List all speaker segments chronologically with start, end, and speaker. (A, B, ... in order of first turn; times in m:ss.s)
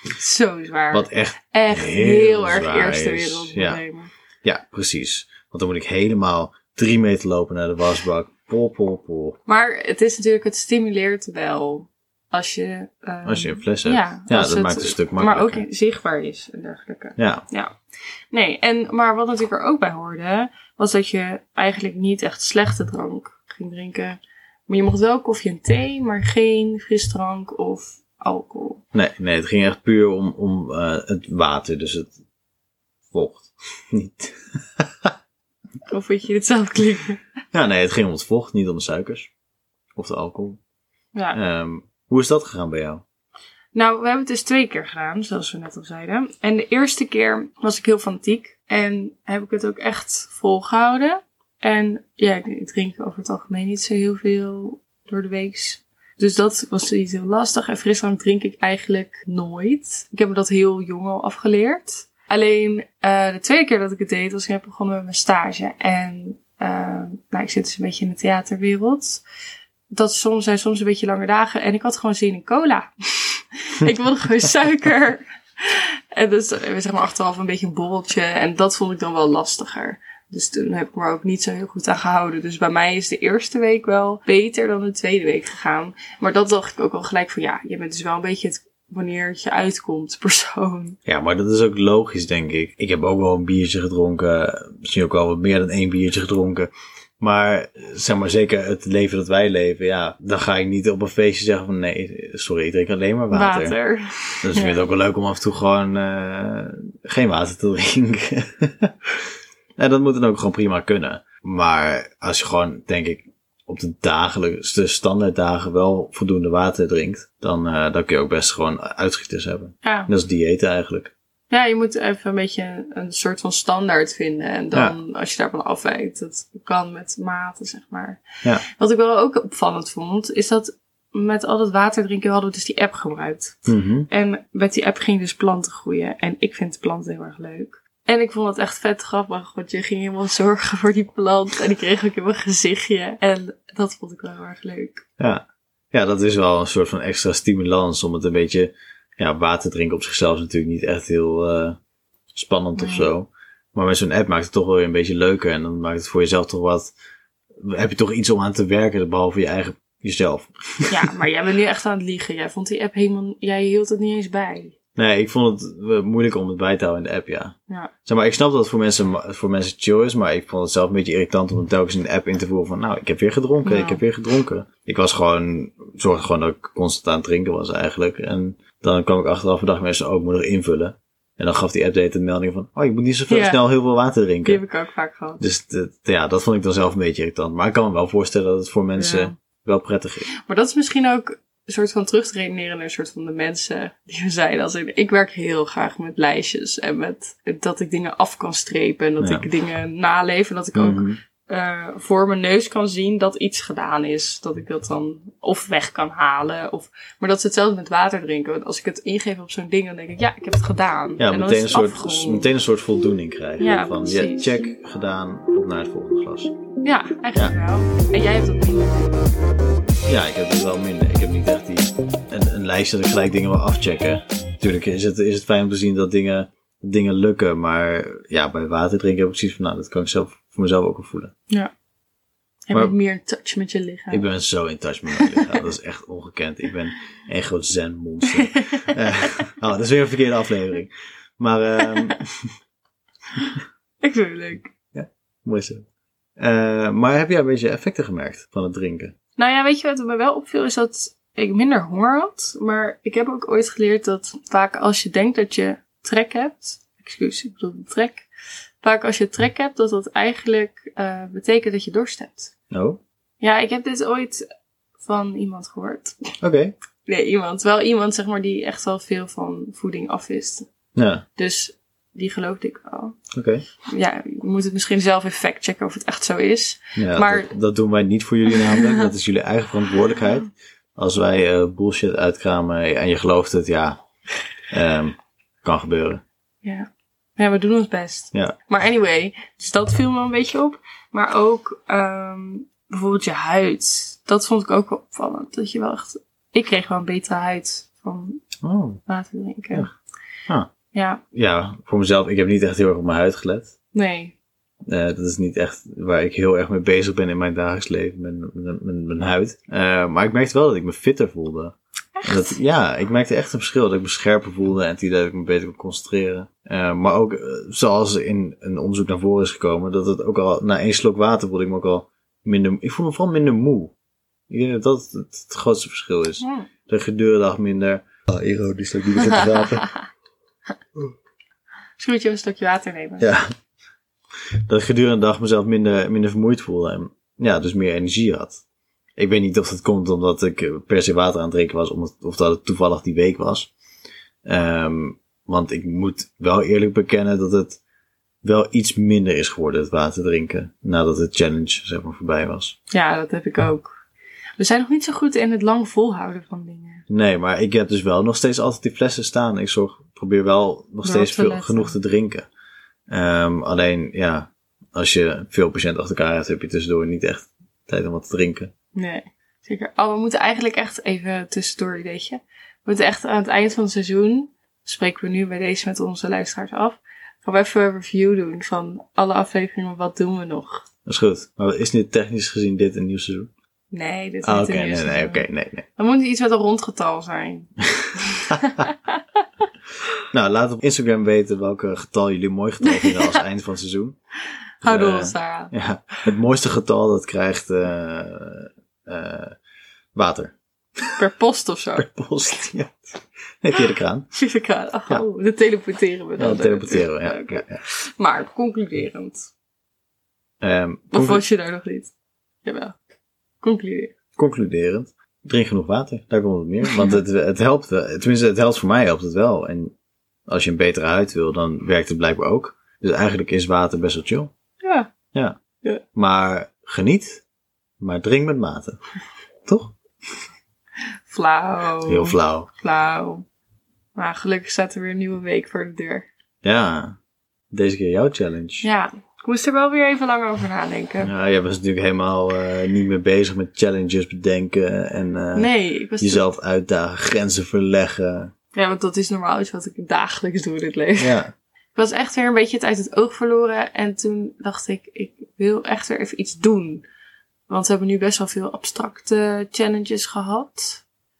0:00.1-0:04.1 A
0:00.9-0:03.8 B
0:04.4-0:09.4 B
0:09.5-0:17.8 A
0:13.2-0:15.6 B
0:17.2-0:17.4 B
0:18.3-0:28.8 A
0:28.9-0:32.1 B
0:33.1-0:35.1 B
0:35.9-0:37.2 A
0:37.5-0:39.3 B
0:39.9-0:40.6 B
0:41.3-0:43.0 B
0:43.7-1:09.2 A
1:09.9-1:31.0 A
1:31.0-1:43.8 B
1:43.3-1:44.8 A
1:44.4-1:49.1 B
1:49.8-2:01.1 B
1:59.8-2:00.1 A
2:01.5-2:25.0 A
2:13.7-2:14.1 B
2:25.2-2:31.8 B
2:32.3-2:36.9 B
2:32.8-2:33.1 A
2:37.6-2:40.9 B
2:40.9-2:44.7 A
2:45.0-2:47.5 B
2:48.0-3:04.6 B
2:53.6-2:54.0 A
3:03.3-3:03.6 A
3:04.4-3:05.4 A
3:05.4-3:10.3 B
3:09.0-3:09.3 A
3:10.4-3:32.5 A
3:19.2-3:19.4 B
3:20.7-3:21.2 B
3:31.2-3:36.5 B
3:33.6-3:34.7 A
3:36.8-3:39.3 A
3:40.0-3:51.3 B
3:52.7-3:54.2 A
3:54.1-4:02.5 B
3:55.1-3:55.6 A
3:58.3-3:59.3 A
4:01.8-4:02.2 A
4:04.0-4:04.7 A
4:04.9-4:05.8 B
4:06.4-4:09.1 B
4:09.4-4:18.3 A
4:18.8-4:22.5 A
4:22.7-4:23.0 B
4:23.4-4:24.4 A
4:25.0-4:26.2 A
4:26.4-4:26.7 B
4:27.0-4:30.7 A
4:30.9-4:31.2 B
4:31.4-4:33.2 A
4:33.3-4:33.6 B
4:33.9-4:37.5 A
4:37.0-4:44.0 B
4:38.5-4:39.1 A
4:44.7-4:46.2 B
4:46.6-4:58.4 A
4:58.6-4:59.0 B
4:59.1-4:59.9 A
5:00.9-5:01.2 A
5:01.3-5:03.7 B
5:03.9-5:04.3 A
5:04.8-5:23.9 B
5:12.2-5:12.6 A
5:24.5-5:29.9 B
5:26.4-5:26.7 A
5:29.2-5:30.0 A
5:32.0-5:33.3 A
5:33.2-5:33.5 B
5:34.6-5:38.6 B
5:39.2-5:43.7 B
5:44.4-5:47.8 B
5:48.4-5:52.8 B
5:52.9-5:54.0 A
5:54.6-5:57.0 A
5:57.1-6:02.5 B
6:01.0-6:02.0 A
6:03.1-6:08.7 B
6:08.9-6:20.8 A
6:21.0-6:23.5 B
6:23.9-6:29.4 A
6:24.4-6:25.8 B
6:28.0-6:28.6 B
6:30.3-6:34.2 B
6:32.8-6:33.4 A
6:34.8-6:36.3 A
6:34.8-6:39.6 B
6:40.1-6:41.2 B
6:41.2-6:42.1 A
6:42.0-6:44.3 B
6:44.3-6:49.5 A
6:46.4-6:47.8 B
6:50.6-6:51.4 B
6:51.1-6:52.1 A
6:52.6-6:53.0 A
6:53.6-6:54.1 A
6:54.4-6:59.9 B
6:56.9-6:57.2 A
7:00.5-7:04.5 B
7:04.8-7:05.1 A
7:06.1-7:07.4 B
7:08.0-7:09.0 B
7:09.6-7:10.0 B
7:11.3-7:13.4 A
7:12.0-7:12.7 B
7:14.1-7:16.3 A
7:16.6-7:17.2 B
7:17.7-7:18.8 B
7:18.8-7:21.3 A
7:21.2-7:25.7 B
7:25.5-7:26.4 A
7:26.2-7:28.5 B
7:28.7-7:31.4 A
7:31.2-7:31.5 B
7:31.9-7:37.0 A
7:37.7-7:41.0 A